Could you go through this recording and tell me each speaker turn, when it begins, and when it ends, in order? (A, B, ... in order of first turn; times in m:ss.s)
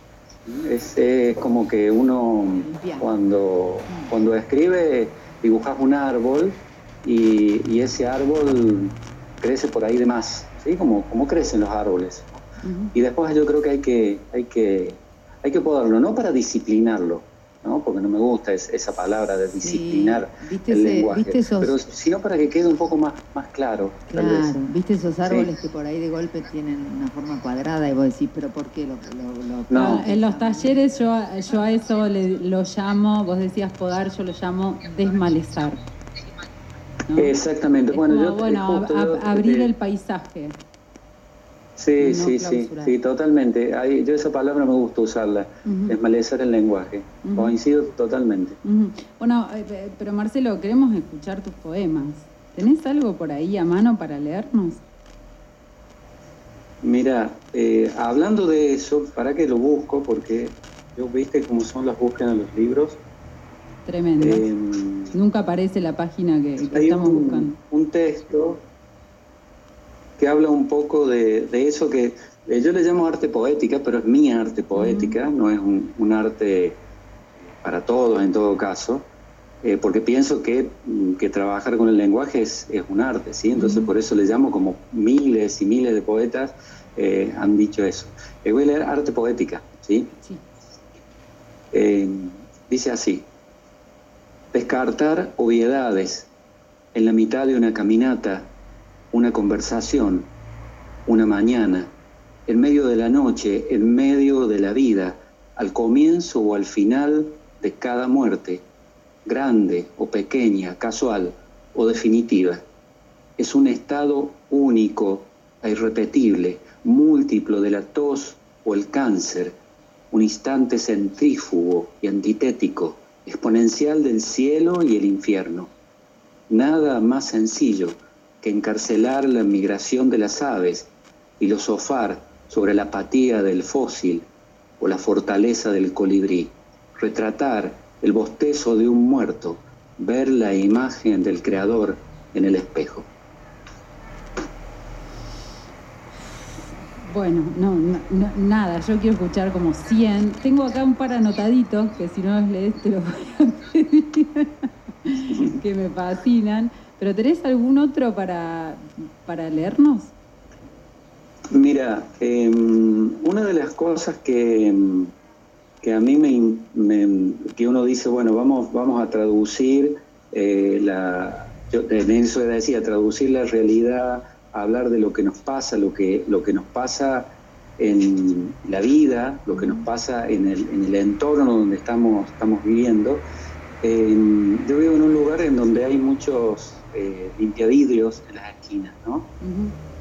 0:00.5-0:12.4 A
0:02.5-0:03.1 B
0:12.6-0:12.9 C
0:12.9-0:24.6 A
0:19.6-0:21.8 B
0:24.1-0:30.8 B
0:25.2-0:25.5 A
0:29.7-0:30.1 A
0:29.8-0:35.8 C
0:37.2-0:39.7 A
0:37.9-0:40.6 C
0:41.8-0:48.6 A
0:42.0-0:42.9 C
0:45.6-0:46.0 C
0:47.2-0:47.5 C
0:48.6-0:54.8 C
0:56.8-1:03.0 A
1:03.9-1:04.5 C
1:04.2-1:05.2 A
1:05.1-1:07.6 C
1:06.7-1:08.6 A
1:10.2-1:16.8 A
1:14.8-1:15.2 C
1:17.6-1:19.1 A
1:19.6-1:30.1 A
1:23.5-1:23.9 C
1:31.7-1:33.3 A
1:34.5-1:36.3 A
1:36.9-1:38.5 A
1:39.1-1:40.3 A
1:41.1-1:41.9 A
1:42.5-1:48.6 A
1:49.2-1:52.6 A
1:53.4-1:59.6 A
2:00.1-2:05.7 A
2:06.5-2:14.3 A
2:14.8-2:23.1 A
2:27.0-2:40.1 C
2:35.3-2:35.6 A
2:41.5-2:45.1 A
2:45.8-3:03.2 A
2:59.5-2:59.8 C
3:03.8-3:09.3 A
3:09.4-3:09.7 C